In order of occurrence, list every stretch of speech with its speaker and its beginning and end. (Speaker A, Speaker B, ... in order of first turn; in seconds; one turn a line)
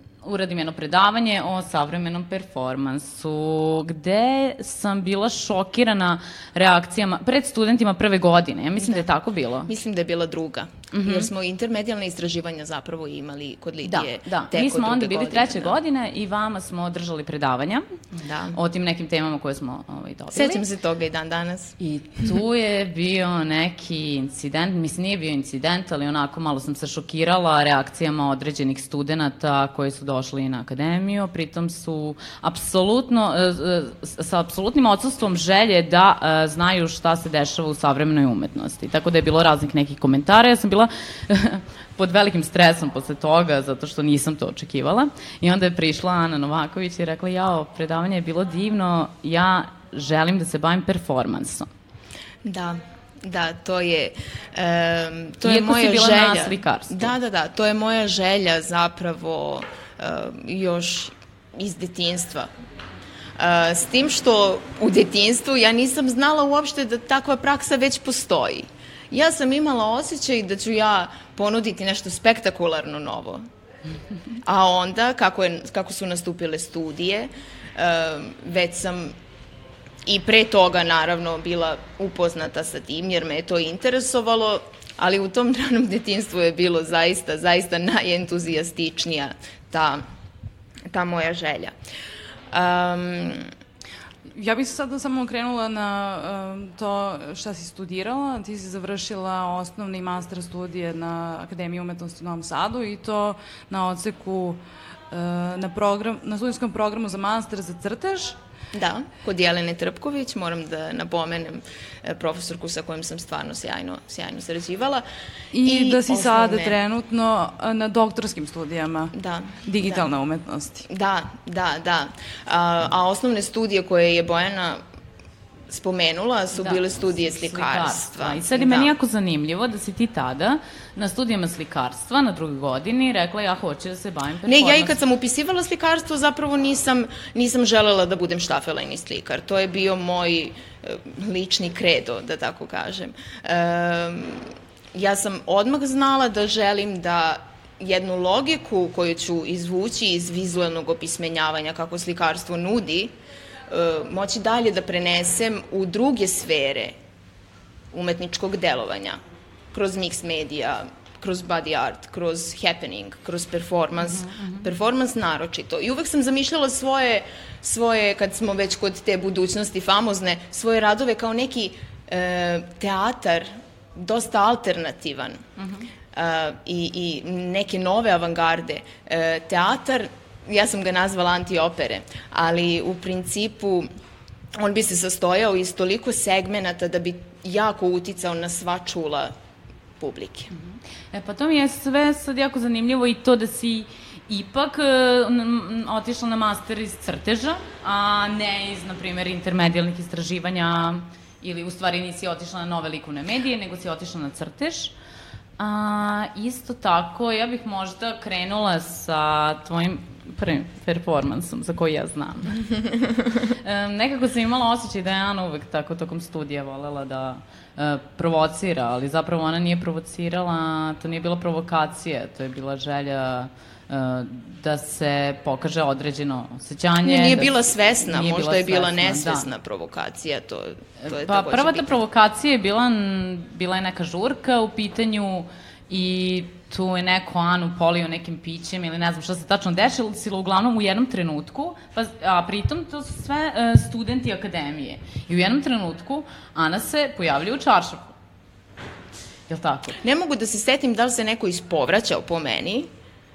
Speaker A: 0.2-9.7
Speaker B: 8.8-9.1
Speaker B: 9.7-15.8
Speaker A: 10.9-11.3
Speaker A: 13.8-17.9
Speaker B: 18.1-18.6
Speaker A: 18.5-20.6
Speaker B: 20.3-21.8
Speaker A: 21.8-51.7
Speaker B: 52.4-62.5
Speaker A: 55.4-57.1
Speaker B: 63.4-73.5
Speaker B: 74.5-79.2
Speaker B: 80.1-90.0
Speaker B: 90.9-91.8
Speaker B: 92.5-93.5
Speaker C: 94.3-104.6
Speaker C: 105.1-108.3
Speaker B: 108.7-115.0
Speaker C: 115.5-119.1
Speaker B: 115.6-116.8
Speaker B: 119.1-120.1
Speaker C: 119.7-120.9
Speaker B: 120.9-124.8
Speaker B: 125.7-128.9
Speaker A: 126.6-135.0
Speaker B: 134.4-153.1
Speaker B: 153.7-157.0
Speaker B: 157.9-159.2
Speaker B: 159.7-175.5
Speaker B: 176.1-183.9
Speaker B: 184.6-189.3
Speaker B: 190.0-190.5
Speaker A: 190.6-204.9
Speaker A: 205.6-212.6
Speaker A: 213.4-229.5
Speaker B: 227.0-232.0
Speaker A: 231.0-248.1
Speaker A: 249.5-250.0
Speaker B: 250.0-252.9